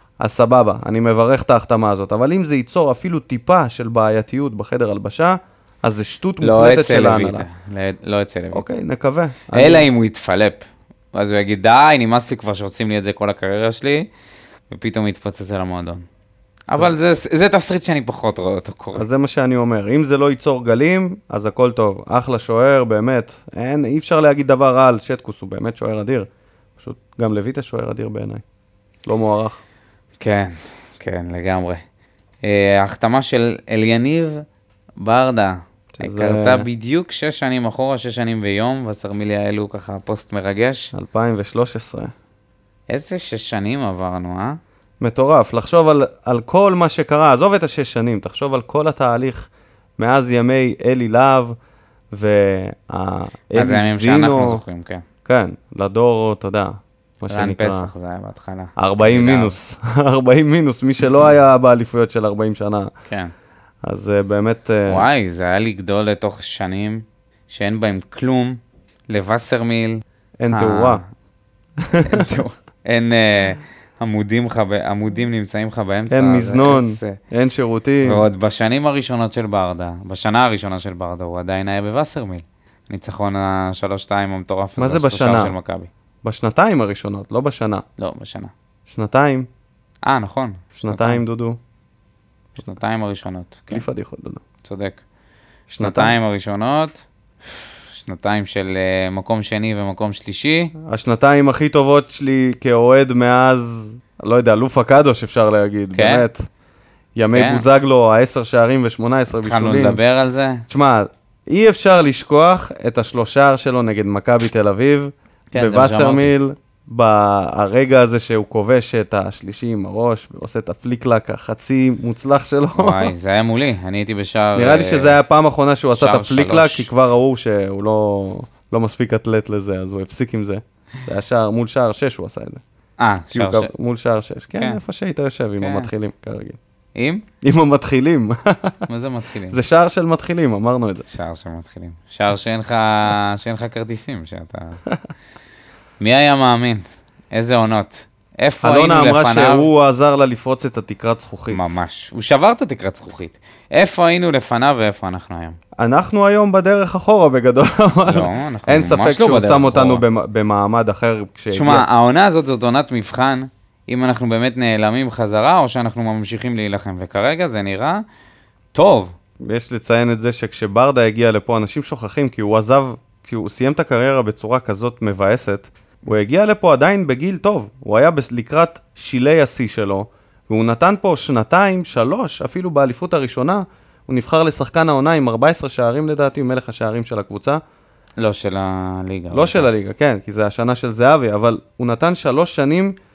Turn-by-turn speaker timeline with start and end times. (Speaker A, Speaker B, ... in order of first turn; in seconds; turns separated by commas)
Speaker A: 0.2-7.5, Speaker B: 6.4-8.7, Speaker A: 8.5-9.9, Speaker B: 9.5-10.6, Speaker B: 11.1-14.1, Speaker B: 14.7-16.1, Speaker B: 16.7-19.1, Speaker A: 18.9-28.4, Speaker A: 29.1-29.6, Speaker B: 30.2-31.8, Speaker B: 32.4-34.4, Speaker B: 35.0-40.9, Speaker A: 36.0-36.7, Speaker A: 40.9-42.1, Speaker B: 42.9-44.6, Speaker A: 45.0-51.6, Speaker A: 52.1-54.6, Speaker B: 53.5-55.1, Speaker A: 55.2-57.9, Speaker B: 57.3-59.6, Speaker A: 58.8-62.9, Speaker B: 63.1-63.3, Speaker A: 63.8-65.1, Speaker B: 64.9-71.1, Speaker A: 70.4-71.0, Speaker A: 71.8-72.4, Speaker B: 72.0-77.2, Speaker A: 76.1-78.2, Speaker B: 78.0-85.9, Speaker A: 84.8-85.5, Speaker A: 86.2-87.8, Speaker B: 88.0-88.5, Speaker A: 88.9-89.5, Speaker B: 90.0-91.2, Speaker A: 90.8-91.6, Speaker B: 92.6-93.9, Speaker A: 93.7-94.4, Speaker B: 94.6-95.0, Speaker A: 95.7-96.2, Speaker B: 95.8-100.7, Speaker A: 100.8-106.5, Speaker B: 105.9-106.3, Speaker A: 107.2-110.0, Speaker B: 107.3-107.7, Speaker B: 109.4-110.7, Speaker A: 110.7-123.1, Speaker B: 115.5-116.3, Speaker B: 122.8-125.2, Speaker A: 124.5-132.6, Speaker B: 126.0-126.9, Speaker B: 133.0-133.7, Speaker A: 133.3-136.6, Speaker B: 134.6-134.8, Speaker B: 135.6-135.9, Speaker B: 137.0-137.2, Speaker A: 137.4-138.8, Speaker B: 138.9-139.6, Speaker A: 139.5-141.1, Speaker B: 141.1-144.8, Speaker B: 146.0-149.7, Speaker A: 148.6-151.6, Speaker B: 151.5-155.6, Speaker A: 155.8-161.9, Speaker B: 158.1-160.0, Speaker B: 161.5-168.0, Speaker B: 168.8-169.1, Speaker A: 169.4-187.6, Speaker B: 188.2-189.7, Speaker A: 189.3-193.0